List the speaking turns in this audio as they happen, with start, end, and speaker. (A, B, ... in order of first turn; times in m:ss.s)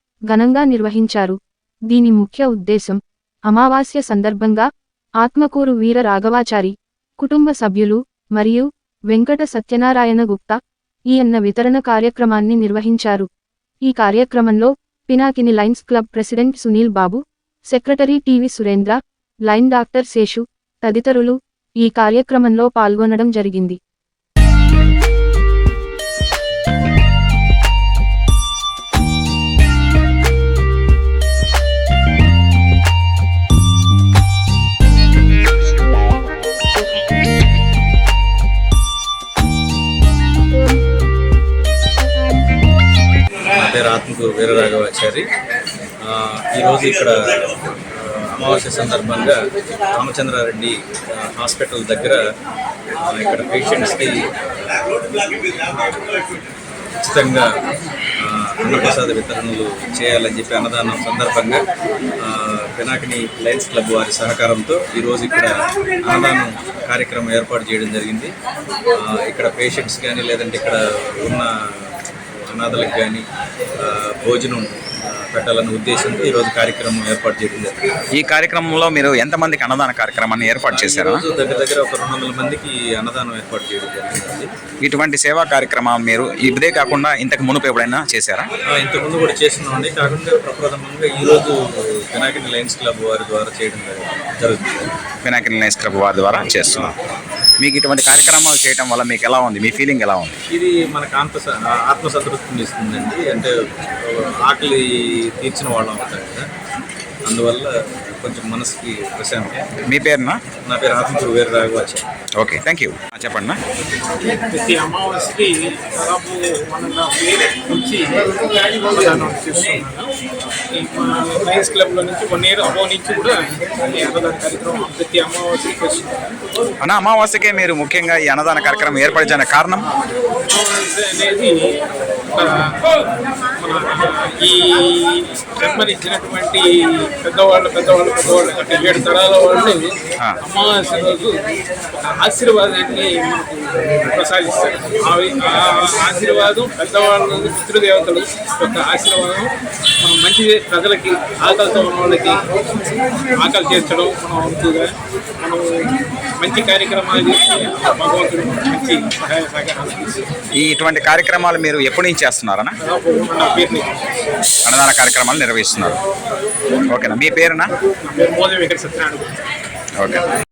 0:00.3-0:01.4 A
0:01.9-0:04.7 A
0:05.2-0:10.6 A
0:11.1-0:13.3 A
0:13.9-0:23.8 A
0:43.5-0:45.3 B
0:46.0-0:52.2 B
0:53.0-0:55.2 B
0:57.0-0:57.5 B
0:58.2-1:01.6 B
1:02.2-1:08.3 B
1:08.9-1:13.2 B
1:13.8-1:17.9 B
1:18.2-1:21.2 C
1:20.6-1:24.5 B
1:24.8-1:28.5 C
1:28.7-1:34.9 B
1:35.2-1:36.9 C
1:36.6-1:36.9 B
1:37.6-1:40.4 C
1:40.5-1:46.5 B
1:47.3-1:49.6 B
1:49.9-1:50.4 C
1:50.6-1:52.0 B
1:52.4-1:53.6 C
1:54.2-2:00.1 D
2:00.7-2:06.3 D
2:06.8-2:09.9 C
2:10.5-2:32.5 D
2:33.4-2:40.2 D
2:40.6-2:42.8 C
2:42.8-2:44.0 D
2:44.6-2:46.0 C
2:46.8-2:47.7 C
2:48.0-2:49.3 D